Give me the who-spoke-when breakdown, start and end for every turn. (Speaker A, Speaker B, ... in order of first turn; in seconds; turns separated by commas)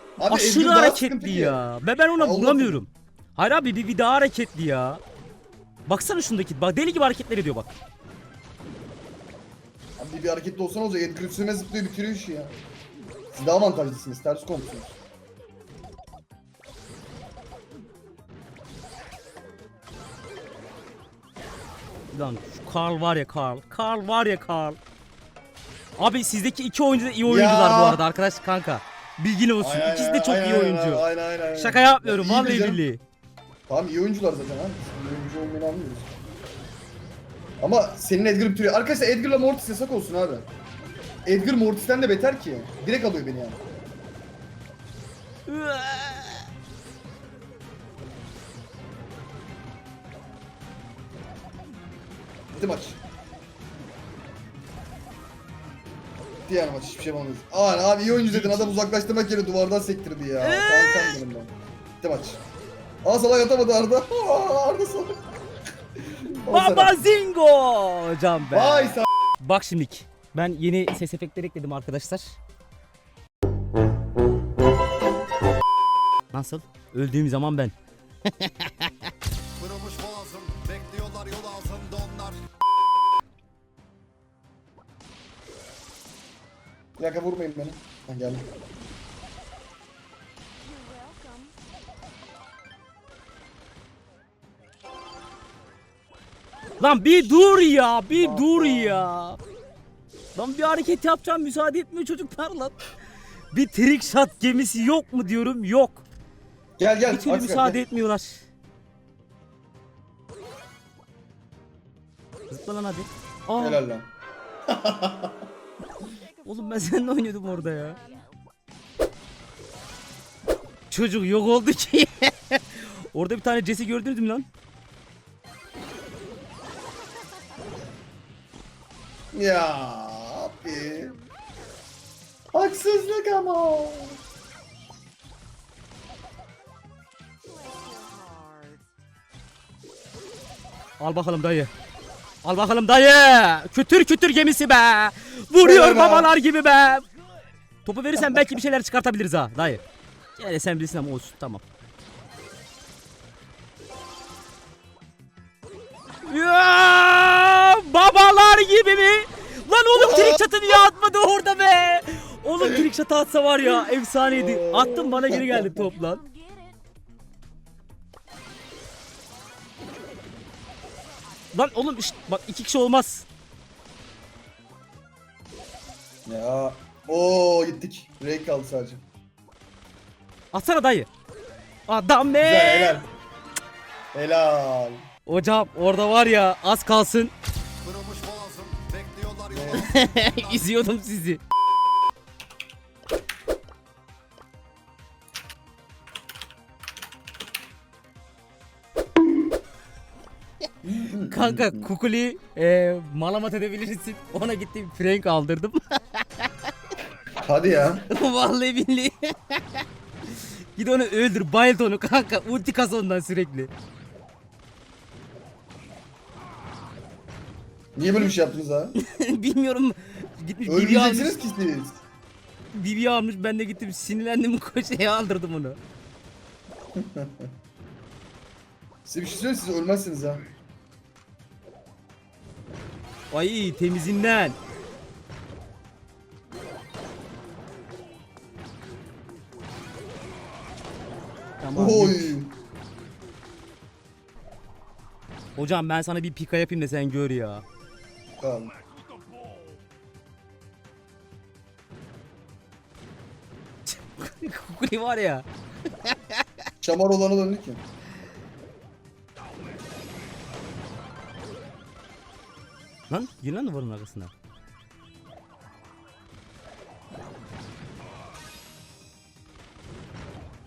Speaker A: 0.2-1.6, Speaker B: 0.2-5.0, Speaker A: 2.2-2.8, Speaker B: 5.9-7.7, Speaker A: 10.0-12.6, Speaker A: 13.3-15.0, Speaker B: 22.1-24.8, Speaker B: 26.0-33.0, Speaker A: 27.2-28.0, Speaker A: 29.6-32.8, Speaker A: 33.7-36.1, Speaker A: 37.6-40.5, Speaker A: 41.3-43.6, Speaker B: 45.5-46.5, Speaker A: 52.5-53.0, Speaker A: 56.5-62.4, Speaker B: 58.1-58.7, Speaker B: 60.4-61.2, Speaker A: 63.0-65.2, Speaker A: 66.0-67.0, Speaker B: 66.5-72.4, Speaker A: 68.5-69.1, Speaker B: 76.3-77.7, Speaker B: 78.3-79.1, Speaker C: 79.6-82.4, Speaker A: 87.0-88.5, Speaker C: 91.0-91.5, Speaker B: 96.8-99.4, Speaker A: 98.2-99.1, Speaker B: 100.4-102.8, Speaker B: 103.5-106.0, Speaker A: 106.8-107.8, Speaker B: 107.1-108.5, Speaker B: 112.5-113.8, Speaker A: 113.6-114.1, Speaker A: 114.7-115.4, Speaker B: 116.5-118.0, Speaker B: 120.9-124.5, Speaker A: 129.3-131.2, Speaker A: 132.5-134.2, Speaker C: 137.8-138.8, Speaker B: 141.0-141.7, Speaker B: 142.4-147.1, Speaker A: 145.6-146.3, Speaker B: 147.8-149.8, Speaker A: 148.2-148.4, Speaker B: 150.4-151.6, Speaker B: 156.3-166.3, Speaker A: 159.9-160.8, Speaker A: 162.6-162.8, Speaker A: 164.3-165.9, Speaker B: 171.5-173.3, Speaker A: 176.3-179.0, Speaker B: 180.5-181.1, Speaker B: 181.9-183.0, Speaker A: 182.4-183.1, Speaker A: 184.1-185.0, Speaker B: 185.3-187.3, Speaker C: 187.8-189.6, Speaker A: 189.5-190.0, Speaker B: 189.7-191.4, Speaker A: 200.8-201.9, Speaker B: 201.3-206.5, Speaker A: 207.4-208.0, Speaker B: 208.1-213.7, Speaker A: 218.0-218.9, Speaker B: 219.0-221.4, Speaker A: 220.7-222.0, Speaker B: 222.7-225.8, Speaker A: 227.0-227.5, Speaker A: 229.1-230.4, Speaker B: 233.3-234.6, Speaker B: 241.6-242.3, Speaker A: 241.7-242.5, Speaker B: 245.6-247.6, Speaker A: 248.4-248.7, Speaker B: 253.9-255.4, Speaker B: 256.0-256.4, Speaker A: 256.8-257.8, Speaker B: 263.1-264.3